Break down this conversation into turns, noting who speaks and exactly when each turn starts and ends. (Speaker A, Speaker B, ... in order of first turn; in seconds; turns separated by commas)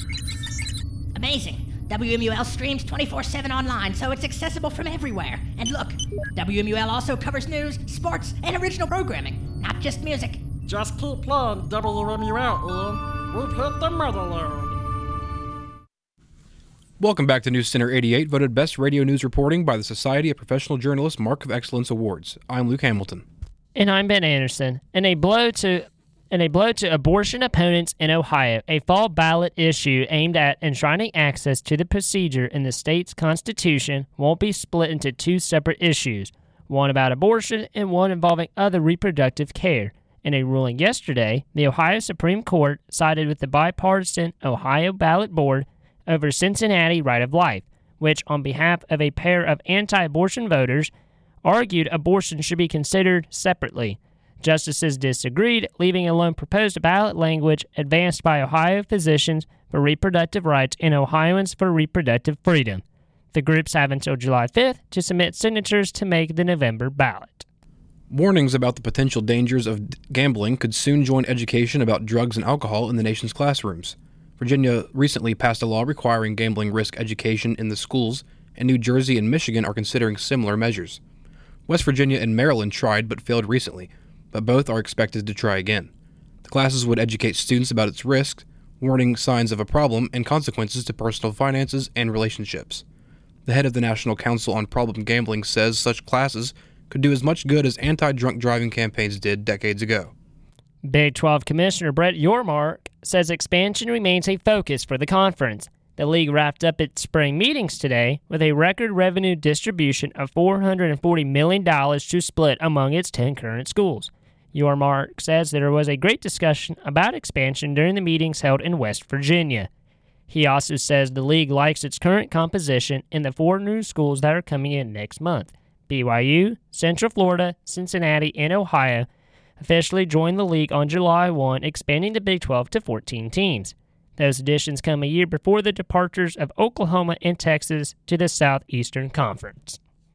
Speaker A: 1.1-10.4, Speaker B: 10.7-14.8, Speaker C: 17.0-23.2, Speaker D: 23.8-50.9, Speaker D: 51.4-67.4, Speaker C: 68.1-81.0, Speaker C: 81.7-85.9, Speaker C: 86.4-92.8, Speaker C: 93.5-100.1, Speaker D: 100.8-119.7, Speaker D: 120.3-129.1, Speaker D: 129.6-139.8